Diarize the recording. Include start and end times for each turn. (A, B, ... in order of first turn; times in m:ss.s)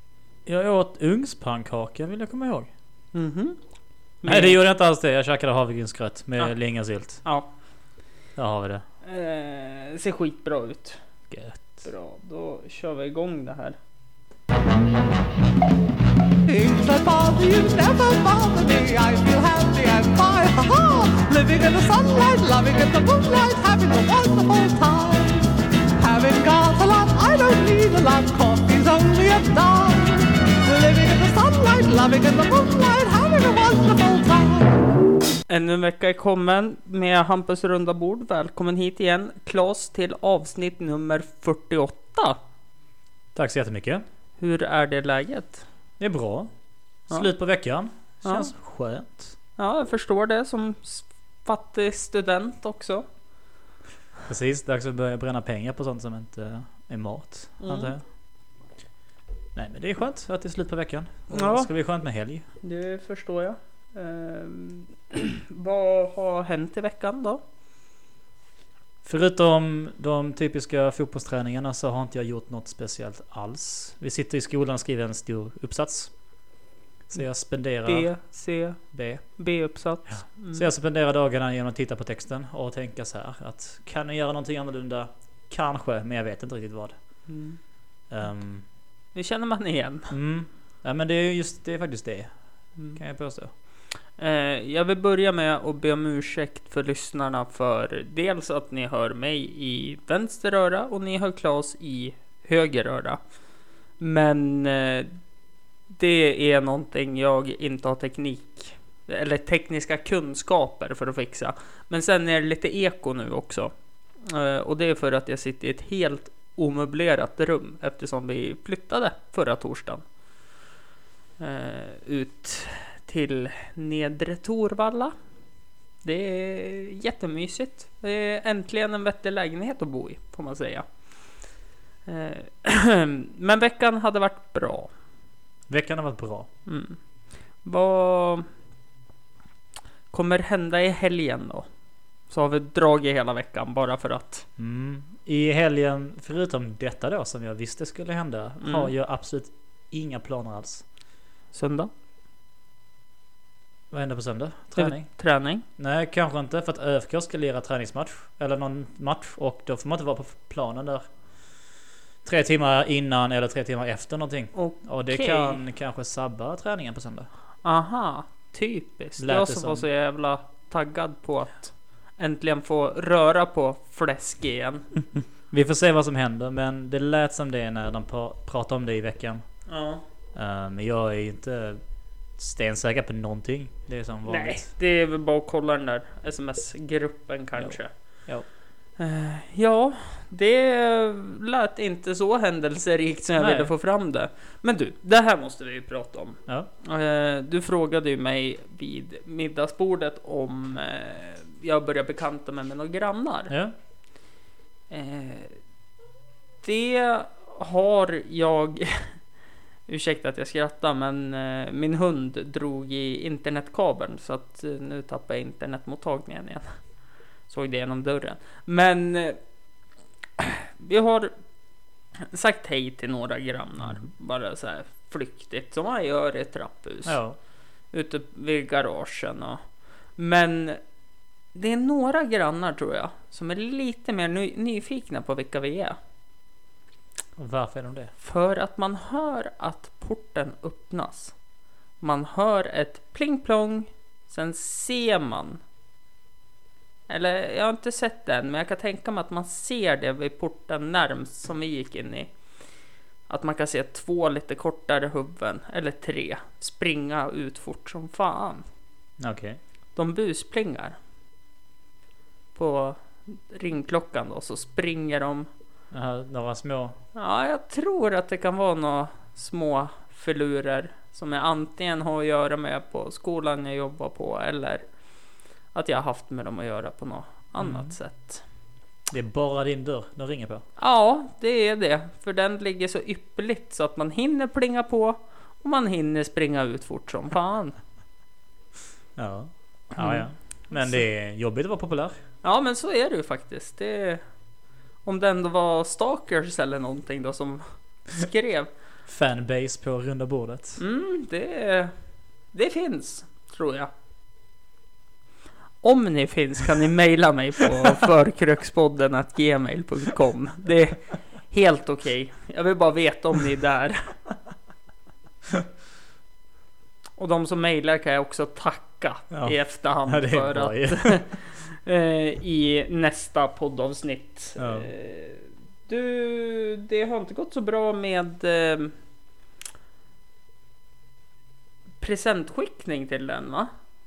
0:00.4-0:02.7 A
0:03.1-0:04.6 B
0:04.2-0:07.6 A
0:06.4-0:07.5 B
0:08.4-0:08.8 A
0:09.0-0:13.8 B
0:11.3-0:11.9 A
0:16.4-0:25.5 C
0:26.0-0:34.8 C
0:35.5-0:42.4 B
0:43.3-0:44.0 A
0:44.4-0:45.6 B
0:46.0-0:49.4 A
0:47.1-0:48.5 B
0:49.6-0:53.0 B
0:54.3-0:58.0 A
0:57.6-0:58.0 B
0:59.5-1:02.4 A
1:01.3-1:07.4 B
1:09.0-1:16.5 A
1:17.1-1:27.4 A
1:17.1-1:20.7 B
1:27.3-1:27.6 B
1:28.1-1:28.7 A
1:29.1-1:30.1 B
1:30.1-1:33.5 A
1:33.6-1:45.3 B
1:45.9-2:00.4 B
2:01.4-2:05.2 B
2:06.0-2:11.5 B
2:12.0-2:15.0 B
2:15.7-2:16.5 A
2:16.6-2:18.5 B
2:20.1-2:24.5 B
2:24.6-2:30.9 A
2:28.6-2:28.9 B
2:31.5-2:31.9 B
2:33.9-2:41.7 A
2:34.7-2:35.6 B
2:42.2-2:47.3 A
2:44.5-2:45.6 B
2:47.6-2:55.1 B
2:49.2-2:49.8 A
2:55.5-3:04.7 A
2:59.7-3:00.0 B
3:04.2-3:23.5 B
3:07.6-3:08.5 A
3:13.4-3:13.7 A
3:23.5-3:23.7 A
3:24.9-3:25.7 B
3:26.6-3:29.3 B
3:29.9-3:39.8 B
3:40.4-3:56.0 B
3:43.8-3:44.0 A
3:47.0-3:47.4 A
3:57.4-3:58.1 A
3:58.2-4:01.4 B
4:02.0-4:05.6 B
4:07.1-4:18.7 B
4:19.2-4:19.6 A
4:19.9-4:21.0 B
4:22.5-4:25.5 B
4:25.9-4:27.0 A
4:27.1-4:38.4 B
4:37.6-4:37.9 A
4:39.1-4:40.6 A
4:40.8-4:47.8 B
4:49.2-4:52.2 A
4:49.9-4:51.0 B
4:52.4-4:54.4 B
4:55.0-4:58.7 B
4:59.1-5:00.8 A
5:00.8-5:03.9 B
5:05.8-5:14.2 B
5:17.2-5:28.9 B
5:19.3-5:21.3 A
5:24.6-5:24.9 A
5:32.0-5:33.7 B